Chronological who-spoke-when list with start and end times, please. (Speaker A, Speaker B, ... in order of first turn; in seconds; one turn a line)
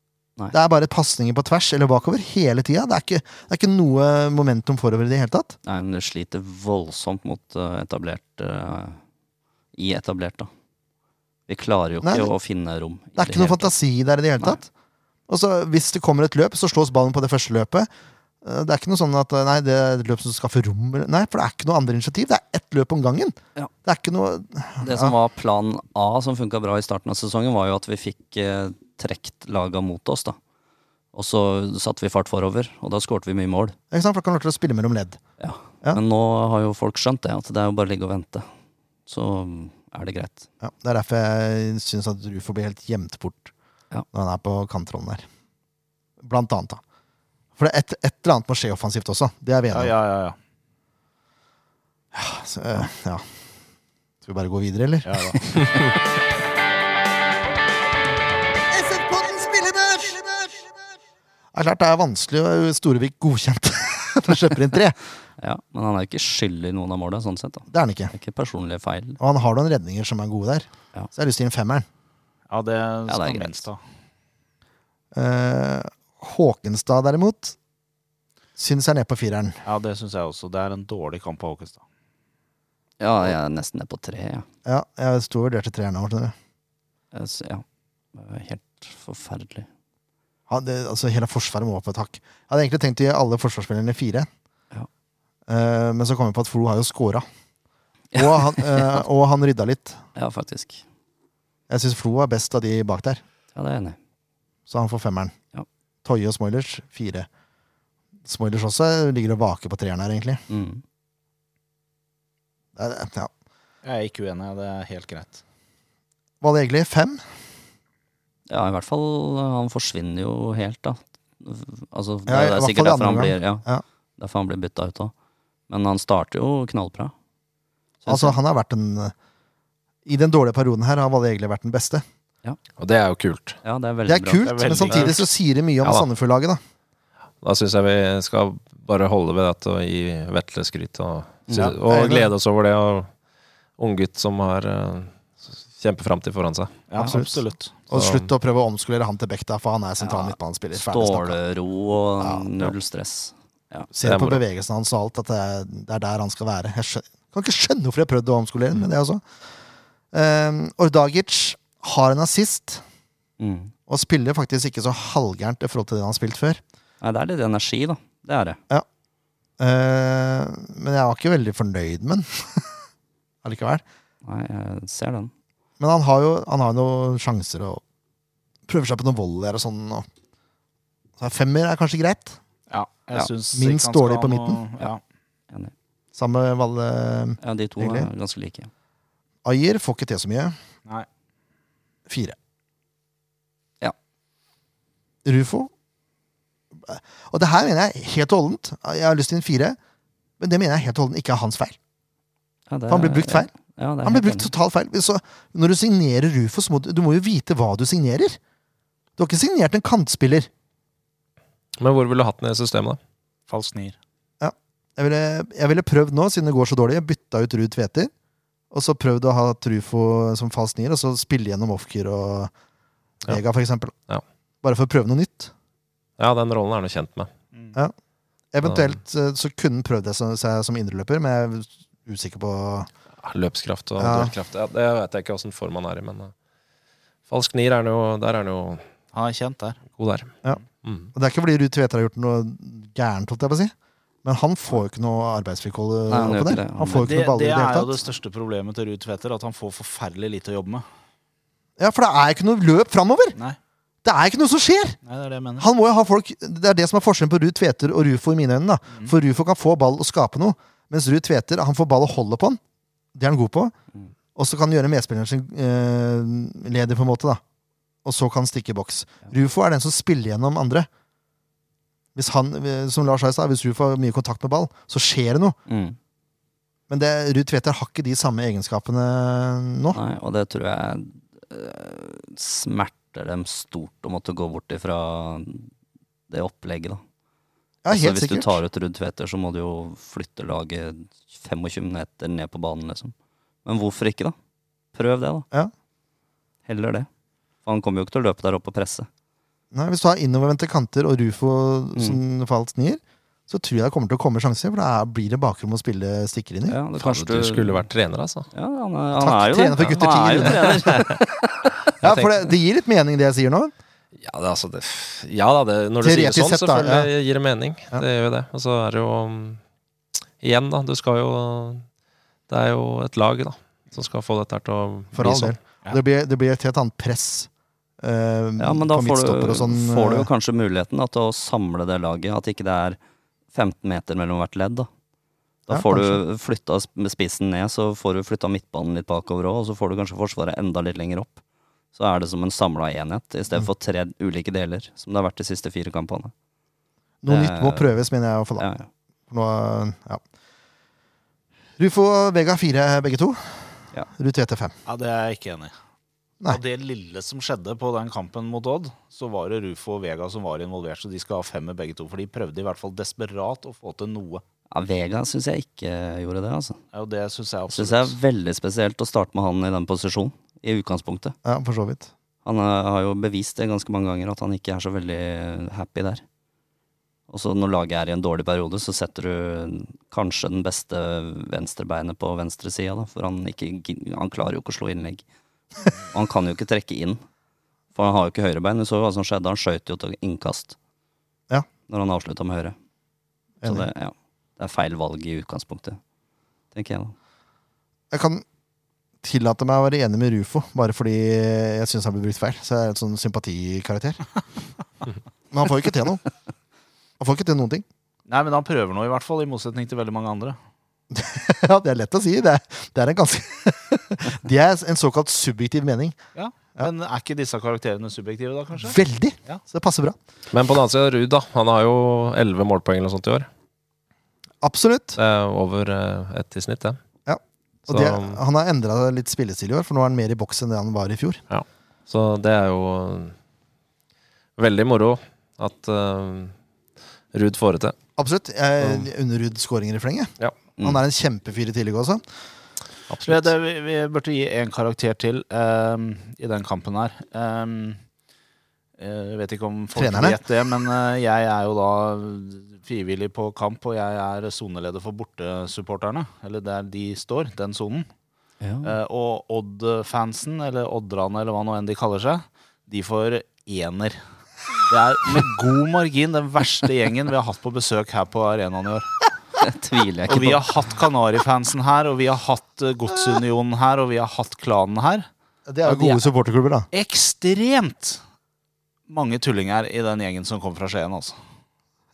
Speaker A: 0.5-5.6
Speaker B: 5.7-9.0
Speaker B: 9.8-10.5
Speaker B: 11.5-13.7
Speaker A: 12.0-12.3
Speaker A: 13.2-14.7
Speaker A: 15.3-17.9
Speaker A: 18.4-25.1
Speaker B: 24.8-30.4
Speaker B: 31.1-33.8
Speaker A: 33.9-35.2
Speaker B: 35.4-38.5
Speaker B: 39.1-40.5
Speaker A: 40.6-43.5
Speaker A: 44.1-45.2
Speaker A: 46.2-46.8
Speaker A: 47.6-49.9
Speaker C: 49.7-50.4
Speaker A: 52.1-53.2
Speaker A: 54.2-55.4
Speaker C: 55.0-55.4
Speaker D: 55.6-55.9
Speaker A: 58.7-60.7
Speaker A: 61.5-65.0
Speaker B: 65.4-69.2
Speaker A: 67.7-68.1
Speaker A: 69.2-71.9
Speaker C: 72.5-73.8
Speaker B: 73.1-73.7
Speaker A: 75.1-77.6
Speaker A: 78.6-79.6
Speaker C: 79.7-81.8
Speaker B: 83.0-84.5
Speaker A: 84.7-86.3
Speaker B: 87.1-89.7
Speaker A: 90.5-94.3
Speaker A: 95.5-97.2
Speaker B: 98.1-99.0
Speaker A: 98.2-100.0
Speaker B: 100.2-100.8
Speaker A: 101.7-103.2
Speaker B: 103.5-104.0
Speaker A: 104.7-105.3
Speaker A: 106.0-107.3
Speaker A: 108.2-110.4
Speaker B: 110.5-110.8
Speaker A: 112.8-113.3
Speaker C: 113.8-115.4
Speaker A: 116.4-117.2
Speaker B: 118.5-123.7
Speaker A: 122.3-123.8
Speaker B: 124.2-125.1
Speaker B: 125.7-127.1
Speaker B: 128.0-128.4
Speaker A: 128.1-129.1
Speaker A: 130.1-132.0
Speaker D: 132.8-133.6
Speaker B: 133.6-134.8
Speaker A: 134.1-136.6
Speaker C: 134.4-135.2
Speaker D: 137.4-143.1
Speaker B: 141.5-141.7
Speaker A: 141.9-142.3
Speaker D: 143.8-146.9
Speaker C: 146.9-147.8
Speaker A: 147.0-147.4
Speaker A: 147.9-151.4
Speaker D: 147.9-148.3
Speaker B: 150.0-153.9
Speaker A: 152.2-152.7
Speaker A: 153.9-159.2
Speaker D: 154.0-154.4
Speaker A: 160.1-162.8
Speaker B: 163.4-163.7
Speaker A: 163.9-166.6
Speaker B: 167.0-168.6
Speaker A: 169.6-172.7
Speaker A: 173.4-173.8
Speaker B: 174.2-175.3
Speaker A: 175.8-177.8
Speaker A: 178.7-180.1
Speaker A: 181.2-182.4
Speaker C: 182.7-185.0
Speaker A: 183.5-184.6
Speaker A: 186.2-188.1
Speaker B: 187.4-188.7
Speaker A: 189.4-190.6
Speaker A: 192.1-192.4
Speaker A: 195.2-195.7
Speaker A: 196.8-199.8
Speaker A: 200.4-201.8
Speaker B: 202.7-204.5
Speaker A: 202.9-203.5
Speaker A: 204.0-208.4
Speaker A: 209.2-210.5
Speaker D: 211.8-213.0
Speaker C: 213.5-214.0
Speaker A: 214.4-218.1
Speaker A: 218.7-222.5
Speaker A: 223.3-223.9
Speaker A: 224.6-225.5
Speaker D: 226.2-227.3
Speaker A: 228.5-232.9
Speaker D: 228.7-228.9
Speaker D: 233.2-236.3
Speaker A: 234.0-234.3
Speaker D: 237.3-238.8
Speaker C: 239.1-239.8
Speaker D: 240.0-241.1
Speaker A: 241.1-243.7
Speaker A: 244.2-248.0
Speaker B: 246.1-247.1
Speaker C: 246.9-250.8
Speaker A: 251.8-253.4
Speaker A: 254.0-255.0
Speaker C: 255.1-255.7
Speaker A: 255.6-262.6
Speaker A: 263.1-263.7
Speaker A: 264.4-267.4
Speaker A: 268.1-270.9
Speaker A: 272.1-275.6
Speaker B: 275.7-276.0
Speaker A: 276.9-280.0
Speaker B: 279.9-285.7
Speaker B: 286.3-287.0
Speaker A: 287.8-288.6
Speaker B: 287.9-293.1
Speaker B: 293.6-294.4
Speaker B: 294.9-295.5
Speaker B: 296.7-297.1
Speaker B: 297.6-299.1
Speaker A: 299.7-306.8
Speaker B: 306.7-307.9
Speaker D: 307.0-308.5
Speaker B: 308.5-311.3
Speaker A: 309.2-311.2
Speaker D: 309.8-311.0
Speaker D: 312.0-312.4
Speaker A: 312.0-313.7
Speaker D: 314.2-319.6
Speaker A: 316.0-317.1
Speaker D: 320.4-321.8
Speaker D: 322.5-325.6
Speaker A: 325.1-327.5
Speaker A: 328.0-330.3
Speaker B: 328.6-333.0
Speaker B: 333.5-334.9
Speaker B: 335.7-341.4
Speaker A: 335.7-336.2
Speaker B: 341.9-346.3
Speaker A: 347.2-348.7
Speaker B: 347.3-347.9
Speaker B: 348.6-348.9
Speaker A: 349.3-350.2
Speaker A: 351.8-354.8
Speaker C: 354.9-355.7
Speaker C: 356.5-364.4
Speaker B: 364.7-366.8
Speaker C: 366.9-368.2
Speaker B: 367.7-371.4
Speaker A: 371.4-372.1
Speaker B: 372.4-376.2
Speaker B: 377.3-385.2
Speaker B: 386.1-387.2
Speaker B: 387.9-390.8
Speaker B: 391.9-392.8
Speaker A: 393.6-393.9
Speaker B: 393.6-396.0
Speaker B: 396.7-397.1
Speaker A: 398.1-398.4
Speaker A: 399.2-404.2
Speaker A: 405.5-406.2
Speaker A: 407.2-407.9
Speaker C: 408.3-410.6
Speaker A: 411.1-416.2
Speaker C: 416.4-419.6
Speaker A: 418.8-420.2
Speaker D: 420.5-423.5
Speaker A: 424.6-425.2
Speaker D: 425.2-427.0
Speaker A: 427.3-431.4
Speaker D: 427.9-428.4
Speaker D: 431.5-433.3
Speaker D: 434.6-436.5
Speaker D: 437.3-438.0
Speaker A: 438.2-442.2
Speaker D: 438.8-439.1
Speaker D: 443.1-443.5
Speaker C: 443.3-448.0
Speaker C: 449.0-458.1
Speaker A: 449.9-450.4
Speaker B: 458.6-459.0
Speaker C: 458.8-464.2
Speaker C: 464.9-469.2
Speaker B: 469.6-470.7
Speaker C: 470.3-475.3
Speaker A: 475.7-476.9
Speaker C: 475.9-476.2
Speaker C: 476.9-478.2
Speaker C: 479.1-481.4